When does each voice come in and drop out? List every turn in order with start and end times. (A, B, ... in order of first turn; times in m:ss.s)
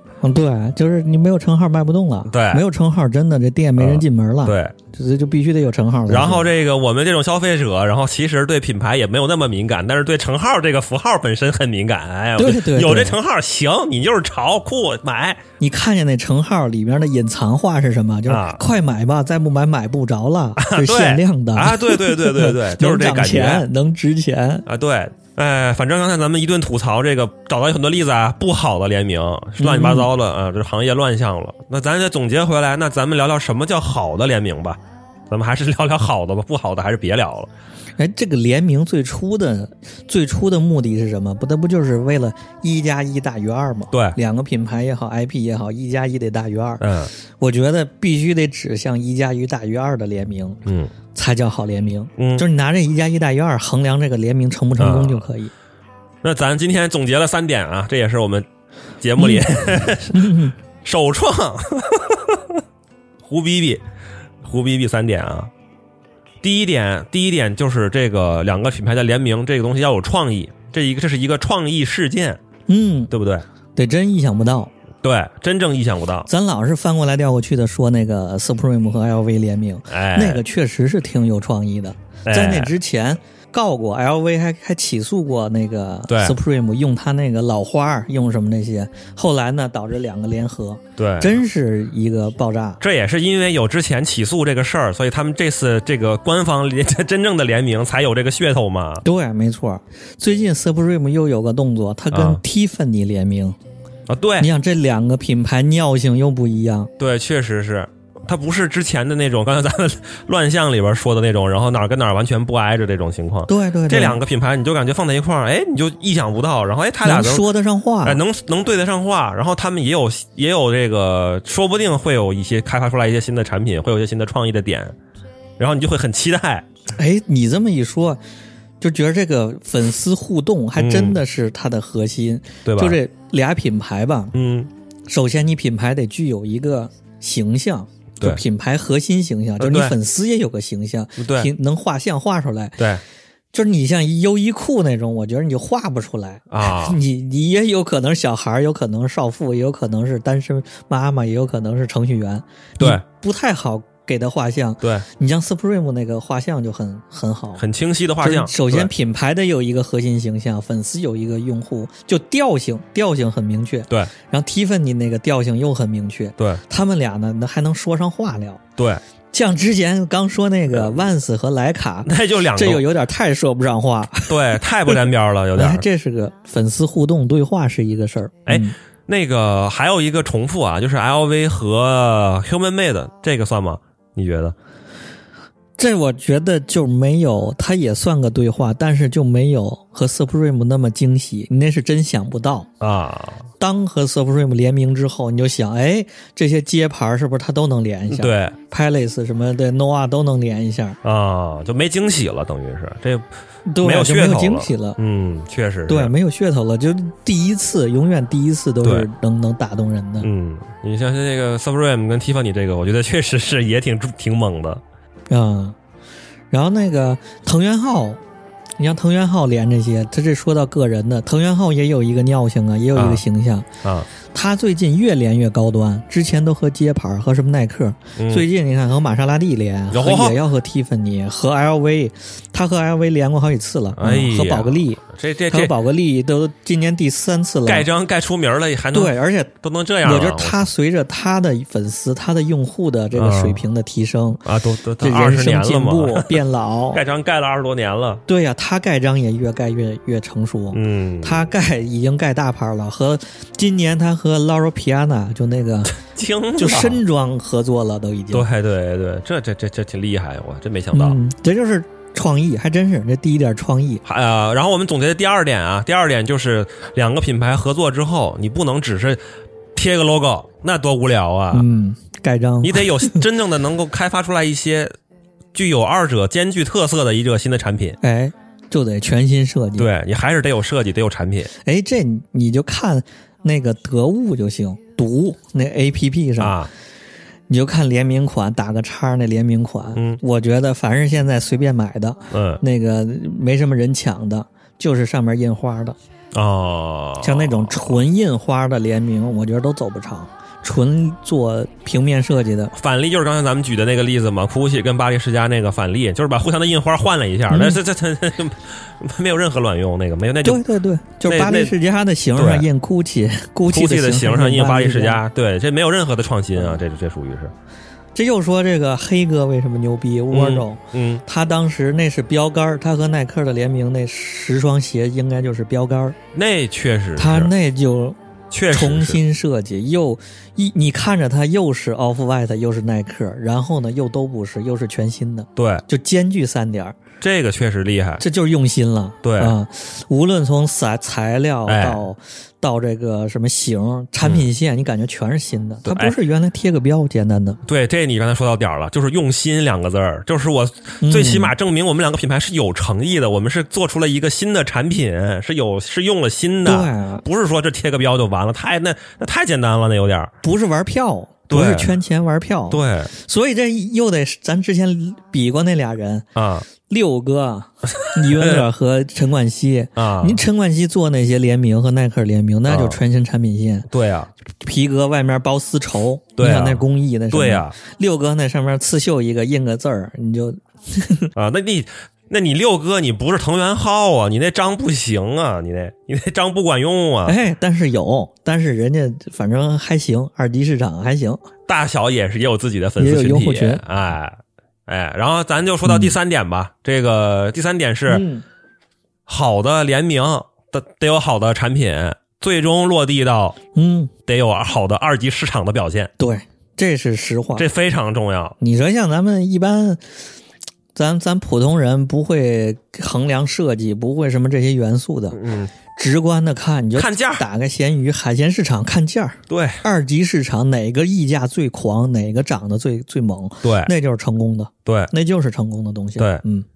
0:00.2-0:06.5 A
0:02.2-0:02.6 B
0:03.8-0:04.7 B
0:06.1-0:15.4 B
0:12.4-0:13.2 A
0:15.6-0:24.6 A
0:18.3-0:18.6 B
0:20.6-0:23.6 B
0:24.6-0:37.5 B
0:29.6-0:30.1 A
0:38.0-0:46.8 A
0:43.9-0:44.2 B
0:46.8-0:47.1 B
0:47.4-0:50.6 A
0:50.6-0:50.9 B
0:51.1-0:55.5 A
0:52.2-0:52.4 B
0:54.8-0:55.3 B
0:56.2-0:58.5 B
0:59.0-1:02.6 B
0:59.2-0:59.4 A
1:00.1-1:00.5 A
1:03.2-1:03.8 B
1:04.4-1:05.5 B
1:06.4-1:12.4 B
1:12.7-1:13.1 A
1:13.1-1:13.4 B
1:13.8-1:14.7 A
1:15.0-1:16.3 B
1:16.3-1:32.8 A
1:19.9-1:20.4 B
1:22.2-1:22.7 B
1:26.1-1:26.4 B
1:31.0-1:31.4 B
1:32.8-1:39.0 B
1:39.0-1:43.6 A
1:42.1-1:42.4 B
1:44.1-1:44.5 B
1:44.4-1:46.9 A
1:47.0-1:57.5 B
1:53.5-1:54.2 A
1:57.0-1:58.2 A
1:58.0-2:05.0 B
2:05.6-2:06.6 B
2:07.0-2:08.2 A
2:08.8-2:14.3 A
2:10.8-2:11.2 B
2:12.6-2:13.0 B
2:14.3-2:14.7 B
2:15.1-2:22.8 A
2:19.6-2:20.0 B
2:21.2-2:21.5 B
2:23.5-2:37.6 A
2:26.5-2:27.0 B
2:37.6-2:38.9 B
2:38.2-2:48.6 A
2:49.3-2:55.0 A
2:50.7-2:51.0 B
2:52.0-2:52.9 B
2:54.3-2:55.8 B
2:55.5-2:58.8 A
2:58.5-3:04.5 B
3:05.8-3:12.7 A
3:12.8-3:13.4 B
3:13.6-3:21.0 A
3:18.1-3:18.6 B
3:21.0-3:23.3 B
3:23.7-3:25.0 A
3:23.8-3:26.1 B
3:25.9-3:30.3 A
3:28.8-3:29.1 B
3:30.2-3:34.8 B
3:35.3-3:35.8 A
3:36.5-3:38.2 A
3:38.8-3:43.7 A
3:42.9-3:43.2 B
3:44.3-3:57.9 A
3:48.2-3:48.4 B
3:49.9-3:50.4 B
3:54.0-3:55.7 B
3:57.6-4:00.7 B
3:58.9-3:59.5 A
4:00.0-4:04.4 A
4:03.1-4:03.6 B
4:04.4-4:08.2 B
4:05.0-4:07.0 A
4:08.3-4:16.0 A
4:10.7-4:11.4 B
4:15.9-4:17.0 B
4:16.6-4:18.4 A
4:18.3-4:21.2 B
4:20.9-4:24.0 A
4:24.0-4:29.2 B
4:29.7-4:31.7 B
4:31.5-4:33.2 A
4:32.6-4:34.9 B
4:35.5-4:38.0 B
4:38.0-4:39.9 A
4:39.8-4:41.5 B
4:41.6-4:46.6 A
4:46.4-4:46.7 B
4:47.5-4:56.0 A
4:52.3-4:52.6 B
4:56.3-4:58.0 B
4:57.2-5:02.7 A
5:02.7-5:10.6 B
5:07.5-5:07.8 A
5:10.4-5:15.2 A
5:11.2-5:11.7 B
5:12.4-5:12.7 B
5:13.7-5:17.5 B
5:18.1-5:26.2 A
5:20.3-5:21.2 B
5:26.3-5:27.5 B
5:27.2-5:28.2 A
5:28.5-5:29.2 B
5:28.7-5:36.9 A
5:35.6-5:35.8 B
5:37.2-5:38.2 B
5:38.2-5:47.6 A
5:39.2-5:39.5 B
5:41.6-5:42.0 B
5:44.2-5:44.5 B
5:45.8-5:46.2 B
5:47.6-6:00.3 B
5:51.0-5:51.5 A
5:56.6-5:57.2 A
6:00.4-6:06.3 A
6:01.5-6:02.0 B
6:02.7-6:03.1 B
6:06.4-6:06.6 B
6:06.9-6:13.9 A
6:08.2-6:08.6 B
6:10.0-6:10.4 B
6:12.7-6:13.0 B
6:13.9-6:14.3 B
6:14.6-6:21.3 A
6:16.4-6:17.8 B
6:21.4-6:27.4 B
6:27.2-6:31.4 A
6:31.7-6:38.2 B
6:33.0-6:33.8 A
6:35.8-6:36.1 A
6:38.1-6:38.4 A
6:39.2-6:43.6 B
6:43.7-6:44.1 A
6:44.3-6:46.1 B
6:46.2-6:47.7 A
6:47.6-6:48.6 B
6:48.6-6:50.0 A
6:50.9-6:55.4 A
6:55.3-6:55.7 B
6:56.0-7:06.6 A
6:56.9-6:57.4 B
6:59.5-6:59.8 B
7:03.6-7:03.9 B
7:04.8-7:05.1 B